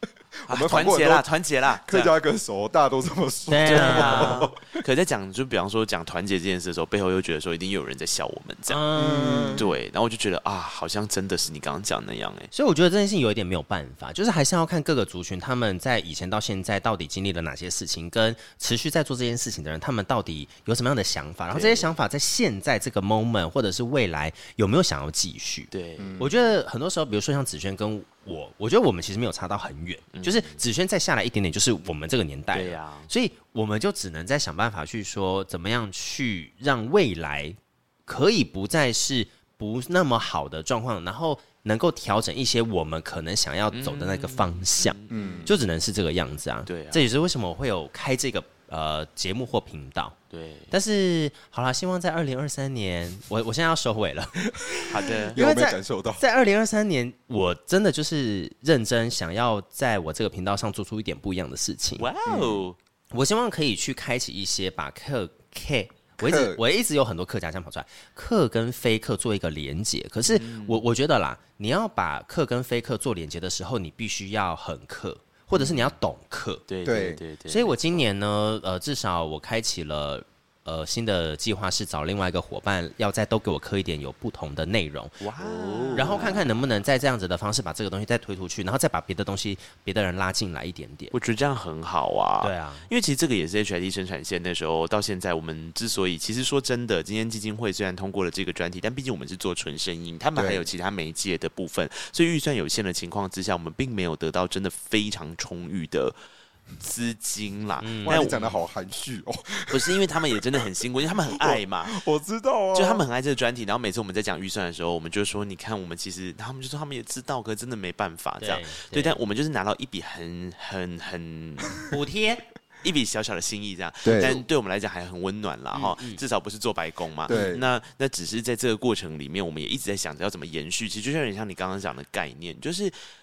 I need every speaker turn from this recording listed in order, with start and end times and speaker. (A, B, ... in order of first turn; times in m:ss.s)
0:00.4-0:04.7 A
0:00.5-0:02.1 B
0:03.5-0:04.4 C
0:03.7-0:08.8 B
0:08.7-0:09.6 C
0:09.0-0:09.7 A
0:09.6-0:12.5 B
0:12.5-0:50.2 C
0:21.5-0:22.0 B
0:25.7-0:26.3 B
0:26.0-0:26.3 A
0:30.1-0:30.6 B
0:32.5-0:33.1 B
0:43.7-0:45.5 B
0:45.1-0:45.6 A
0:46.7-0:47.1 B
0:50.3-0:50.7 B
0:50.7-1:02.1 C
0:54.7-0:56.2 A
0:54.9-0:55.4 B
1:02.0-1:02.8 B
1:02.3-1:02.7 A
1:03.1-1:16.7 C
1:06.2-1:06.6 A
1:10.3-1:10.8 B
1:15.6-1:16.0 B
1:16.7-1:18.0 B
1:16.8-1:17.2 A
1:17.5-1:31.1 C
1:25.2-1:26.4 B
1:25.6-1:26.4 A
1:31.1-1:46.2 B
1:32.4-1:32.9 C
1:40.4-1:40.7 A
1:46.8-1:48.4 B
1:47.8-1:48.6 C
1:48.0-1:50.0 A
1:49.7-1:52.0 B
1:51.3-1:53.0 A
1:52.7-2:01.8 B
1:58.4-1:59.2 C
2:01.9-2:02.4 C
2:02.8-2:12.9 B
2:04.0-2:04.4 A
2:05.7-2:06.2 C
2:07.3-2:07.6 A